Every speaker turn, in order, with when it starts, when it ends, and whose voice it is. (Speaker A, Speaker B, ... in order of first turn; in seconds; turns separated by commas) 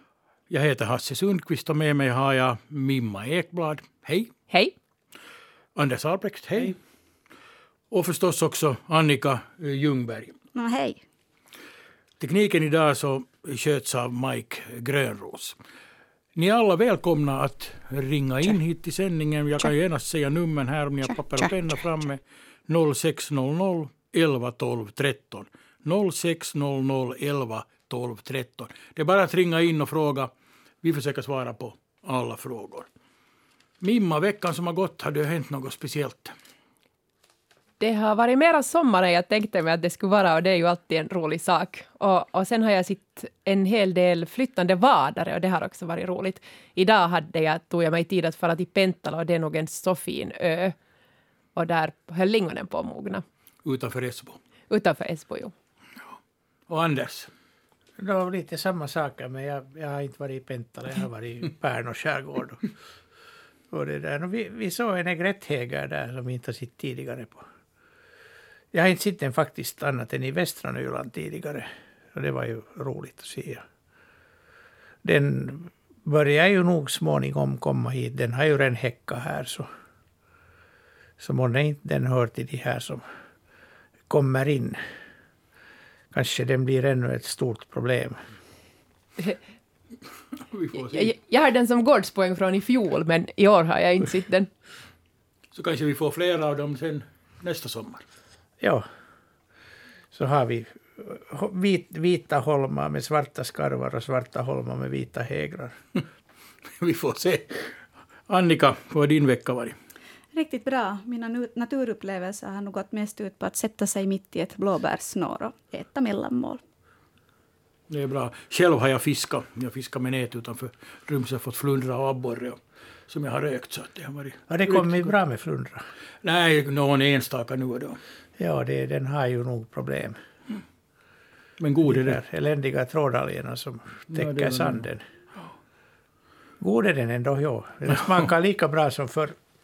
Speaker A: 0.5-4.3, Speaker A: 5.7-6.8, Speaker A: 7.9-10.3, Speaker B: 10.5-11.0, Speaker A: 12.2-15.6, Speaker A: 16.4-30.3, Speaker A: 30.8-32.9, Speaker A: 33.8-36.3, Speaker C: 37.8-50.8, Speaker C: 51.5-53.2, Speaker A: 53.6-54.4, Speaker C: 54.7-55.5, Speaker A: 56.7-57.3, Speaker D: 58.0-62.6, Speaker D: 63.7-67.4, Speaker D: 68.7-73.6, Speaker D: 75.0-79.7, Speaker D: 81.2-83.0, Speaker D: 84.1-84.8, Speaker D: 86.1-88.2, Speaker A: 90.5-91.1, Speaker C: 90.9-94.5, Speaker A: 95.5-98.0, Speaker D: 98.6-98.8, Speaker D: 100.1-105.8, Speaker A: 106.8-107.7, Speaker A: 108.3-109.7, Speaker B: 110.3-116.6, Speaker A: 117.9-125.1, Speaker D: 124.5-125.8, Speaker A: 126.2-128.0, Speaker D: 128.4-130.2, Speaker A: 131.6-132.2, Speaker D: 131.8-135.0, Speaker A: 134.1-134.8, Speaker D: 136.6-139.4